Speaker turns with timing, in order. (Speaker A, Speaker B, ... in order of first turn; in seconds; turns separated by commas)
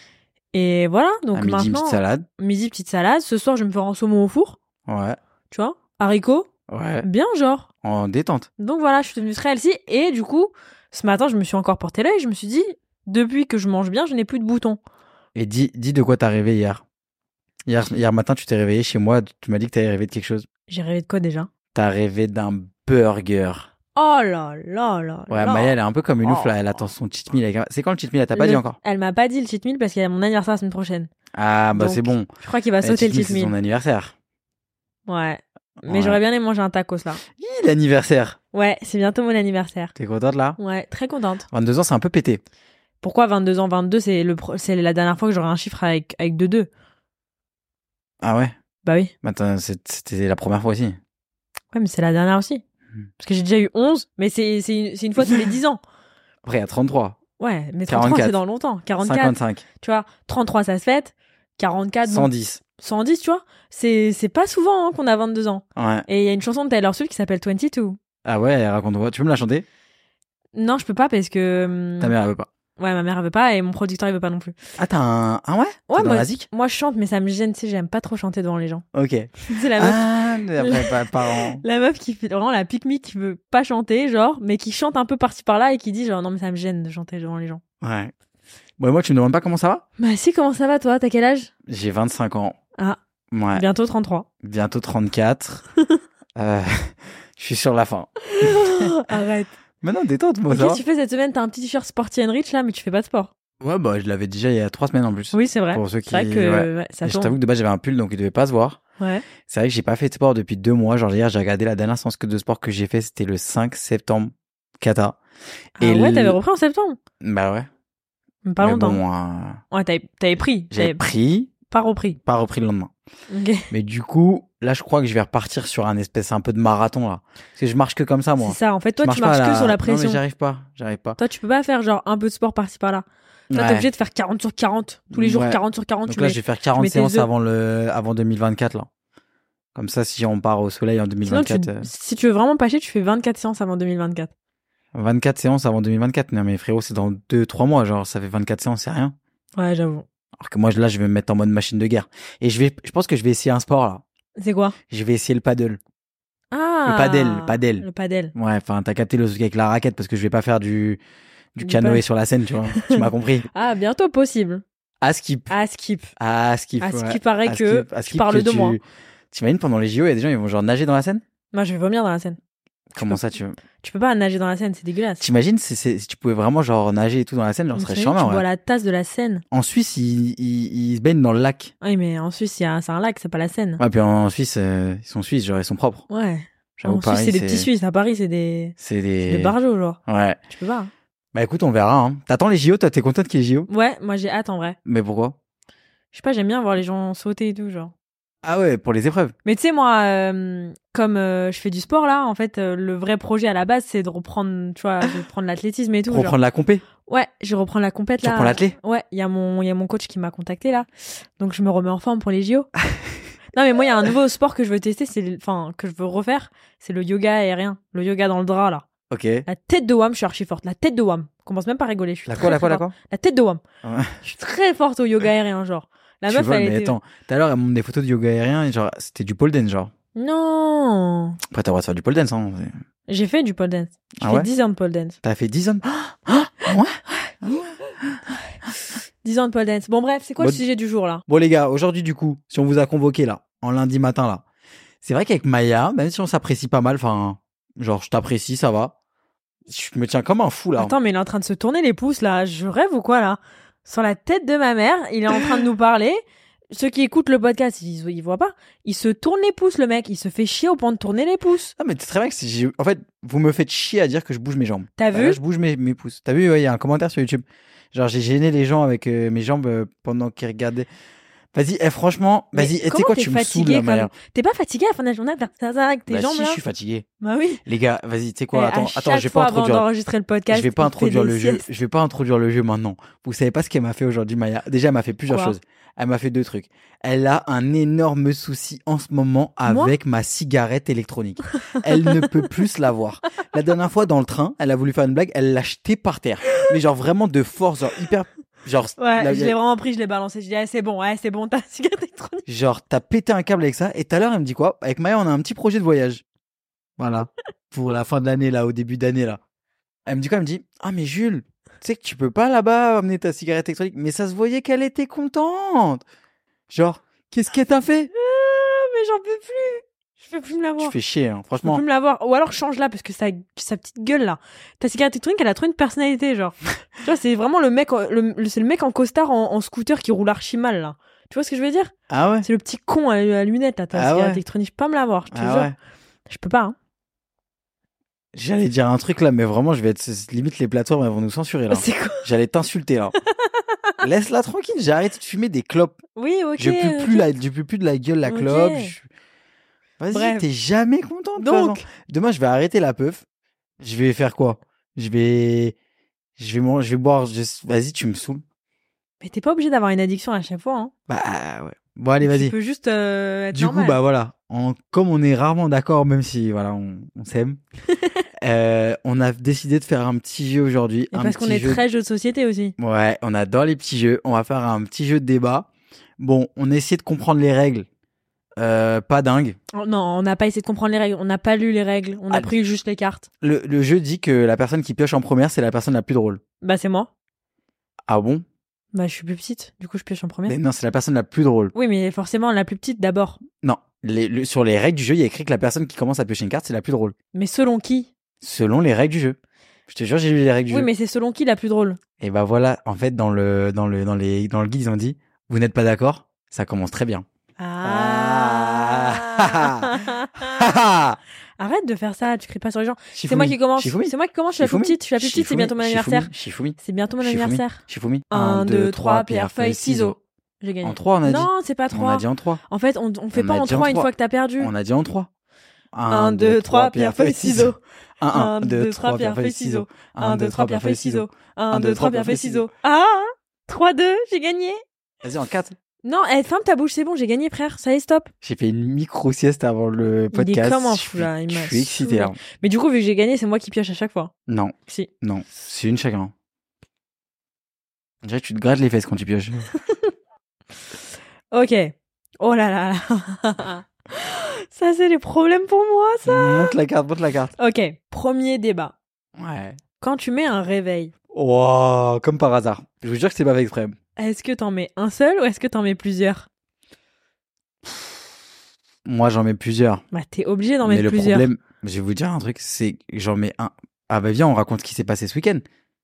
Speaker A: 0.5-4.6, Speaker B: 1.3-2.2, Speaker B: 4.8-5.2, Speaker A: 5.5-6.5, Speaker B: 6.7-7.0, Speaker A: 7.0-7.7, Speaker B: 7.8-8.5, Speaker A: 8.6-14.8, Speaker B: 15.3-16.8, Speaker B: 17.6-20.5, Speaker A: 20.7-21.5, Speaker B: 21.7-23.7, Speaker A: 23.9-26.8, Speaker B: 25.3-28.8, Speaker A: 28.3-31.1, Speaker B: 31.3-32.3, Speaker A: 31.7-33.5, Speaker B: 32.8-34.1, Speaker A: 35.1-37.2, Speaker B: 35.8-36.2, Speaker B: 37.3-38.4, Speaker A: 38.5-39.9, Speaker B: 40.0-40.6, Speaker A: 40.6-41.5, Speaker B: 41.5-42.4, Speaker A: 43.0-46.7, Speaker B: 48.2-48.5, Speaker A: 48.8-49.1, Speaker B: 49.2-51.0, Speaker A: 51.7-52.6, Speaker A: 53.2-55.8, Speaker B: 56.4-57.2, Speaker A: 57.4-68.0, Speaker B: 57.9-58.4, Speaker B: 59.0-59.6, Speaker B: 62.0-62.6, Speaker B: 65.8-66.0, Speaker B: 68.2-69.6, Speaker A: 70.5-72.2, Speaker B: 72.0-72.5, Speaker A: 72.8-74.5, Speaker B: 74.8-76.5, Speaker A: 75.9-78.8, Speaker B: 78.9-81.6, Speaker A: 79.5-87.6, Speaker B: 87.8-88.1, Speaker B: 88.8-89.8, Speaker A: 90.0-91.5, Speaker B: 91.7-92.6, Speaker B: 93.3-93.7, Speaker A: 93.5-94.3, Speaker B: 94.4-95.6, Speaker B: 96.3-98.9, Speaker A: 98.2-99.5, Speaker B: 99.8-100.8, Speaker A: 100.5-103.3, Speaker B: 103.6-108.8, Speaker A: 105.3-107.3, Speaker A: 109.0-109.2, Speaker B: 109.4-115.2, Speaker A: 115.8-117.0, Speaker B: 115.8-116.4, Speaker B: 117.2-117.7, Speaker A: 118.4-119.0, Speaker B: 118.6-119.6, Speaker A: 119.7-121.0, Speaker B: 120.7-121.5, Speaker A: 121.7-122.2, Speaker B: 122.2-122.9, Speaker A: 123.3-123.7, Speaker B: 123.7-131.2, Speaker A: 128.4-130.2, Speaker A: 131.2-137.3, Speaker B: 133.5-133.9, Speaker B: 135.1-138.9, Speaker B: 139.7-141.9, Speaker A: 141.2-144.3, Speaker B: 144.9-149.1, Speaker A: 149.6-150.0, Speaker B: 150.4-154.0, Speaker A: 154.4-154.8, Speaker B: 154.9-155.8, Speaker A: 156.5-158.3, Speaker B: 156.8-161.0, Speaker B: 161.6-163.5, Speaker A: 161.6-162.0, Speaker A: 162.7-164.6, Speaker B: 165.0-165.5, Speaker A: 165.5-166.1, Speaker B: 166.2-171.2, Speaker A: 166.8-168.8, Speaker A: 171.5-172.4, Speaker B: 172.9-173.6, Speaker A: 173.0-173.2, Speaker A: 173.8-175.3, Speaker B: 175.2-178.4, Speaker A: 177.7-179.4, Speaker B: 179.5-181.7, Speaker A: 181.8-183.8, Speaker B: 183.8-186.0, Speaker A: 186.1-190.9, Speaker B: 186.8-187.7, Speaker B: 188.8-189.5, Speaker B: 190.1-190.4, Speaker B: 191.3-193.7, Speaker A: 193.7-194.8, Speaker B: 194.8-195.3, Speaker A: 196.1-197.9, Speaker B: 198.4-199.3, Speaker A: 199.4-206.3, Speaker B: 206.1-206.8, Speaker A: 207.1-212.7, Speaker B: 208.2-208.8, Speaker A: 213.5-218.8, Speaker B: 219.1-219.4, Speaker A: 219.4-223.6, Speaker B: 222.3-222.9, Speaker B: 223.8-224.2, Speaker A: 224.2-226.9, Speaker B: 226.3-229.9, Speaker A: 230.1-231.4, Speaker B: 231.5-232.8, Speaker A: 233.1-235.2, Speaker B: 234.2-234.5, Speaker B: 235.2-238.2, Speaker A: 239.2-241.2, Speaker B: 241.3-244.4, Speaker B: 245.0-248.9, Speaker B: 249.7-250.9, Speaker A: 250.8-261.7, Speaker B: 261.8-270.9, Speaker A: 265.0-265.4, Speaker B: 271.5-274.1, Speaker A: 272.5-276.6, Speaker B: 276.1-277.1, Speaker A: 277.2-277.6, Speaker B: 277.6-279.9, Speaker A: 278.5-281.7, Speaker B: 280.5-299.5, Speaker A: 285.3-285.5, Speaker A: 289.6-289.9, Speaker A: 291.6-292.2, Speaker A: 299.0-302.4, Speaker B: 302.5-306.2, Speaker B: 307.0-309.4, Speaker B: 310.1-316.0, Speaker B: 316.7-318.1, Speaker A: 318.1-320.9, Speaker B: 320.8-321.8, Speaker A: 321.6-335.7, Speaker B: 332.1-332.5, Speaker B: 333.9-334.4, Speaker B: 335.3-335.7, Speaker A: 336.3-336.7, Speaker B: 338.3-343.1, Speaker A: 341.7-342.2, Speaker B: 344.0-346.0, Speaker A: 346.1-347.3, Speaker B: 346.6-349.1, Speaker A: 348.2-348.9, Speaker B: 350.0-353.2, Speaker A: 350.1-350.4, Speaker A: 351.4-351.8, Speaker B: 353.8-355.7, Speaker B: 356.4-358.4, Speaker A: 359.2-360.9, Speaker B: 361.1-362.5, Speaker A: 362.2-364.0, Speaker B: 363.5-367.6, Speaker B: 368.4-371.8, Speaker A: 371.1-372.7, Speaker B: 372.8-377.9, Speaker B: 378.6-379.6, Speaker A: 379.7-383.3, Speaker B: 383.4-386.4, Speaker A: 386.6-387.1, Speaker B: 388.1-388.4, Speaker A: 388.9-390.6, Speaker B: 390.5-391.7, Speaker A: 391.7-393.4, Speaker B: 393.6-397.1, Speaker A: 397.3-398.1, Speaker B: 398.4-399.4, Speaker B: 399.9-400.9, Speaker A: 400.7-402.0, Speaker B: 402.2-407.2, Speaker A: 407.6-410.7, Speaker B: 407.8-411.2, Speaker A: 411.6-424.7, Speaker B: 413.1-420.1, Speaker B: 420.8-422.6, Speaker B: 423.3-425.3, Speaker B: 425.9-432.7, Speaker A: 426.1-427.8, Speaker A: 428.3-434.8, Speaker B: 435.2-435.8, Speaker A: 436.0-438.3, Speaker B: 438.4-442.4, Speaker A: 440.3-444.3, Speaker B: 444.5-446.3, Speaker B: 448.2-449.7, Speaker A: 451.5-456.7, Speaker B: 456.2-457.5, Speaker A: 457.6-458.9, Speaker B: 459.4-459.8, Speaker A: 460.0-461.1, Speaker B: 461.3-463.9, Speaker A: 464.2-466.5, Speaker B: 469.0-470.0, Speaker A: 470.1-471.5, Speaker B: 470.8-475.6